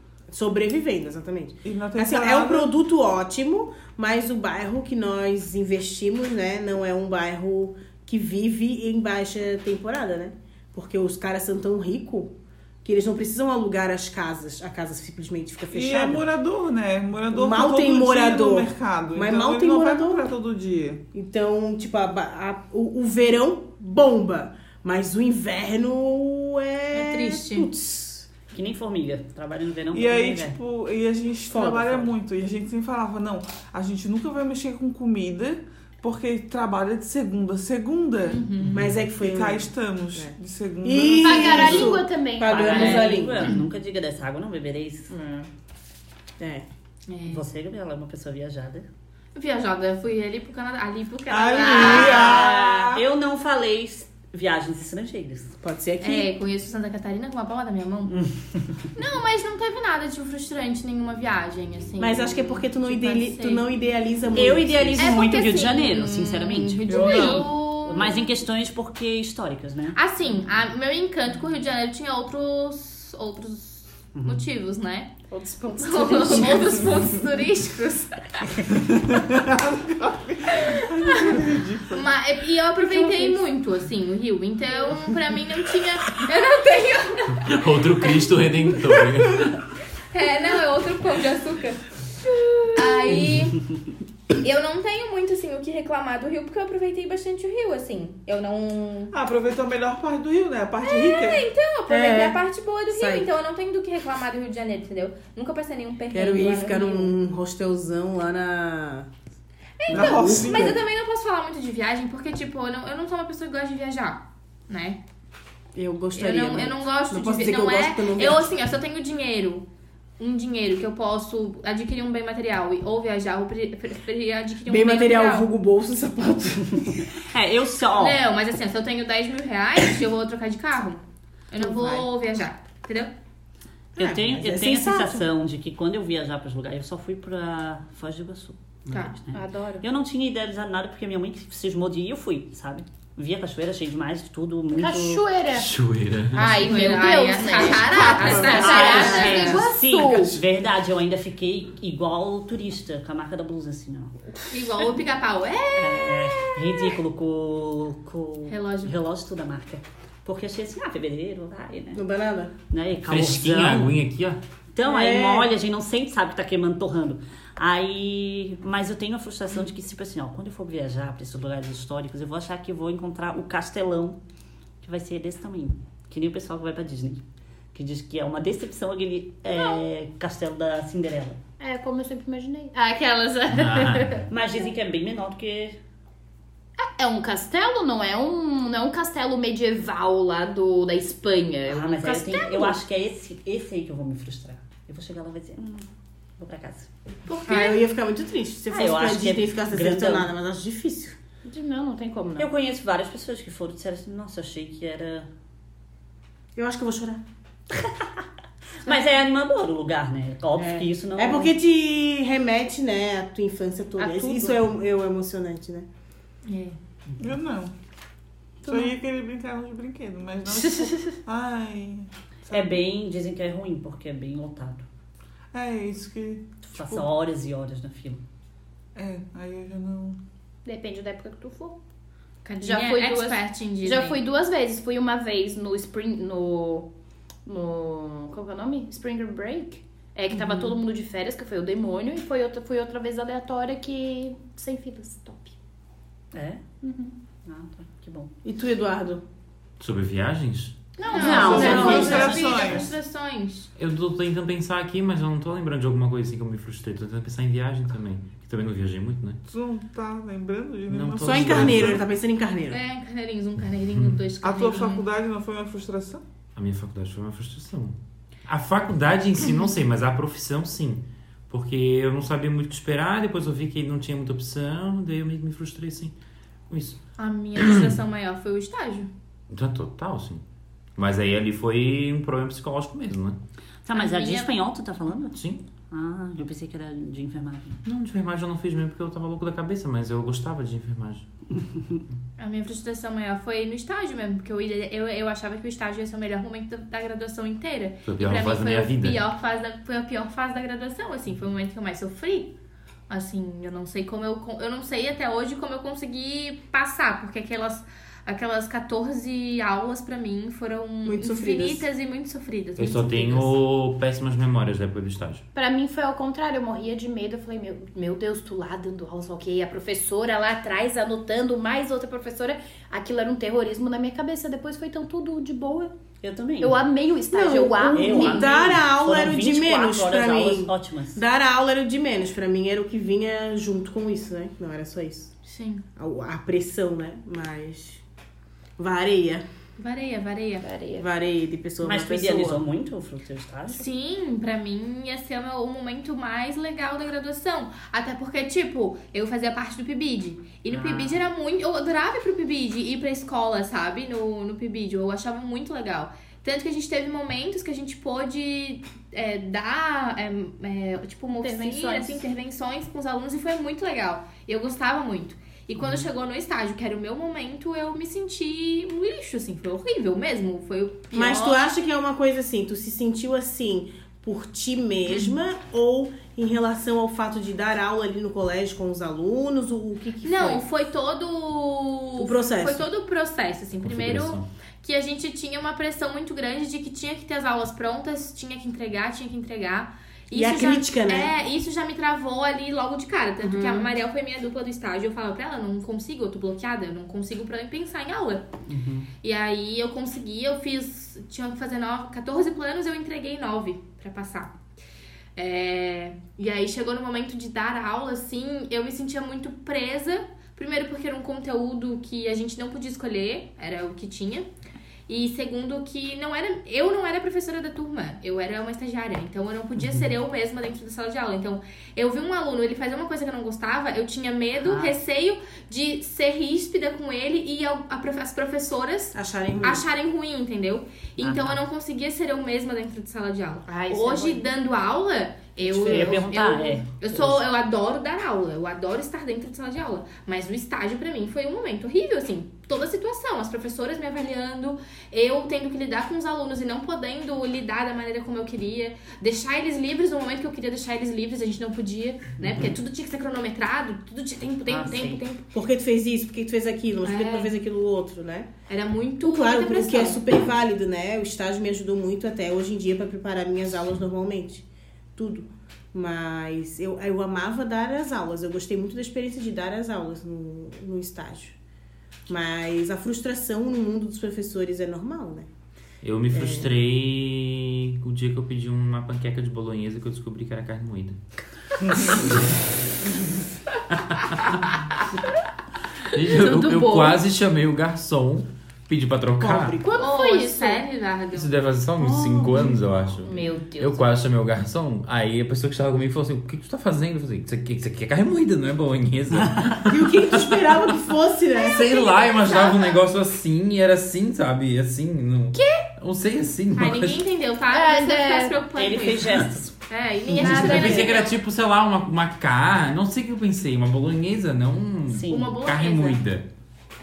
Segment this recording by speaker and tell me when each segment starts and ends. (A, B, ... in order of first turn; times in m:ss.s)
0:00.3-0:16.2 A
0:01.6-0:02.7 B
0:15.7-0:21.0 B
0:17.3-0:20.3 A
0:21.1-0:28.3 A
0:26.9-0:27.7 C
0:28.5-0:30.6 D
0:29.9-0:38.4 B
0:31.5-0:32.1 A
0:38.2-0:38.8 C
0:38.7-0:43.5 A
0:39.1-0:41.9 B
0:41.2-0:43.1 E
0:42.5-0:45.1 D
0:42.7-0:43.6 C
0:45.1-0:45.5 A
0:46.4-0:46.6 A
0:47.1-0:47.4 C
0:47.3-0:48.8 D
0:49.3-0:52.4 C
0:51.3-0:52.7 B
0:51.7-0:55.6 D
0:52.0-0:53.0 A
0:55.6-0:56.3 A
0:56.0-0:58.2 C
0:58.9-1:03.6 C
1:02.0-1:05.1 A
1:04.3-1:10.0 D
1:05.0-1:08.3 C
1:06.9-1:07.5 B
1:09.9-1:15.1 C
1:14.1-1:14.4 D
1:15.3-1:17.0 E
1:15.8-1:18.7 C
1:18.9-1:22.0 B
1:20.5-1:28.2 C
1:22.8-1:23.4 E
1:27.4-1:29.6 F
1:30.1-1:31.8 C
1:32.7-1:33.6 C
1:34.4-1:39.1 C
1:39.1-1:41.5 B
1:40.8-1:47.1 C
1:41.9-1:42.4 A
1:42.9-1:43.3 A
1:46.1-1:49.1 A
1:49.8-1:55.0 C
1:49.9-1:50.8 A
1:49.9-1:50.8 B
1:55.7-1:58.5 A
1:56.1-1:59.6 C
2:00.2-2:05.5 C
2:04.7-2:07.1 A
2:07.1-2:08.2 D
2:08.0-2:13.1 C
2:11.6-2:12.1 A
2:14.0-2:15.2 A
2:14.0-2:25.2 D
2:19.3-2:19.8 E
2:24.7-2:25.7 E
2:25.5-2:26.6 F
2:26.3-2:30.4 E
2:26.4-2:29.6 C
2:28.3-2:34.1 D
2:28.8-2:29.3 A
2:34.5-2:36.9 C
2:35.8-2:42.0 D
2:38.5-2:38.9 C
2:41.9-2:42.5 A
2:42.7-2:43.9 D
2:43.0-2:44.4 F
2:44.7-2:54.2 D
2:44.8-2:45.5 A
2:54.8-2:57.2 D
2:57.7-3:01.4 D
2:59.5-2:59.8 E
3:01.6-3:04.3 E
3:03.5-3:04.2 F
3:04.3-3:05.8 D
3:06.8-3:12.8 E
3:11.6-3:15.9 D
3:16.4-3:16.9 D
3:17.3-3:17.9 C
3:17.5-3:21.2 A
3:18.7-3:20.3 D
3:21.4-3:22.5 E
3:22.4-3:25.3 D
3:26.6-3:27.2 A
3:27.7-3:28.1 D
3:28.8-3:31.5 D
3:30.6-3:35.8 A
3:34.0-3:34.4 E
3:36.4-3:36.8 C
3:37.2-3:37.7 B
3:38.6-3:42.8 B
3:40.6-3:41.2 E
3:42.5-3:44.8 D
3:45.5-3:47.0 B
3:46.7-3:48.2 D
3:49.0-3:50.2 B
3:50.6-3:51.8 E
3:52.4-3:54.2 C
3:52.6-3:56.9 E
3:57.4-4:05.5 E
4:00.3-4:00.8 D
4:06.3-4:06.6 D
4:06.8-4:07.1 E
4:07.4-4:08.3 D
4:08.4-4:09.2 A
4:09.8-4:10.8 F
4:11.0-4:12.4 E
4:11.0-4:13.7 C
4:11.1-4:12.2 A
4:11.2-4:12.8 D
4:11.2-4:12.9 B
4:13.8-4:19.4 F
4:19.5-4:22.0 B
4:20.9-4:22.0 F
4:21.2-4:22.8 A
4:22.7-4:25.0 C
4:23.9-4:24.2 F
4:24.4-4:26.2 B
4:26.5-4:27.9 F
4:28.5-4:36.1 F
4:36.7-4:37.0 F
4:37.2-4:39.1 C
4:37.6-4:37.9 F
4:39.5-4:40.4 F
4:41.0-4:43.4 F
4:43.8-4:45.4 D
4:43.9-4:44.5 C
4:45.3-4:45.6 F
4:45.9-4:47.8 D
4:47.8-4:51.2 F
4:52.4-5:02.5 C
4:58.0-4:59.2 F
5:03.1-5:13.5 C
5:11.0-5:11.9 A
5:12.8-5:15.4 F
5:15.5-5:25.9 E
5:26.2-5:26.8 D
5:26.6-5:28.5 E
5:27.3-5:35.3 A
5:27.9-5:31.2 D
5:35.4-5:35.8 C
5:36.0-5:38.0 A
5:38.8-5:39.4 A
5:39.8-5:40.7 C
5:40.6-5:41.1 E
5:41.0-5:42.6 A
5:41.8-5:43.8 D
5:43.7-6:11.6 C
5:50.7-5:51.2 D
6:01.4-6:02.2 E
6:11.1-6:20.6 A
6:20.2-6:38.5 C
6:22.2-6:22.8 A
6:23.8-6:24.4 F
6:30.3-6:31.3 A
6:33.4-6:33.9 A
6:38.7-6:39.1 D
6:39.2-6:44.6 C
6:45.4-6:54.5 C
6:55.1-7:35.4 C
7:04.6-7:04.9 D
7:09.1-7:09.8 A
7:11.2-7:11.6 D
7:13.7-7:14.4 E
7:13.7-7:14.4 A
7:15.7-7:17.4 D
7:15.8-7:16.2 A
7:34.6-7:35.2 D
7:35.5-7:38.5 A
7:37.0-7:37.5 C
7:38.7-7:40.2 C
7:39.2-7:44.6 A
7:45.2-7:51.6 A
7:52.3-7:55.5 A
7:56.0-8:01.2 F
7:56.3-7:56.7 A
8:02.0-8:02.5 F
8:03.9-8:04.6 F
8:06.1-8:09.8 F
8:06.2-8:07.2 C
8:09.4-8:10.1 A
8:09.8-8:10.8 E
8:09.9-8:11.5 C
8:11.3-8:20.7 F
8:12.0-8:13.4 A
8:13.3-8:14.0 E
8:13.3-8:13.8 C
8:19.4-8:19.7 D
8:19.9-8:21.9 A
8:21.6-8:23.0 C
8:21.7-8:27.2 F
8:25.5-8:25.8 E
8:26.7-8:31.4 C
8:27.7-8:28.6 E
8:28.8-8:29.7 D
8:30.3-8:31.1 D
8:30.4-8:36.4 F
8:35.1-8:35.5 D
8:35.3-8:36.2 C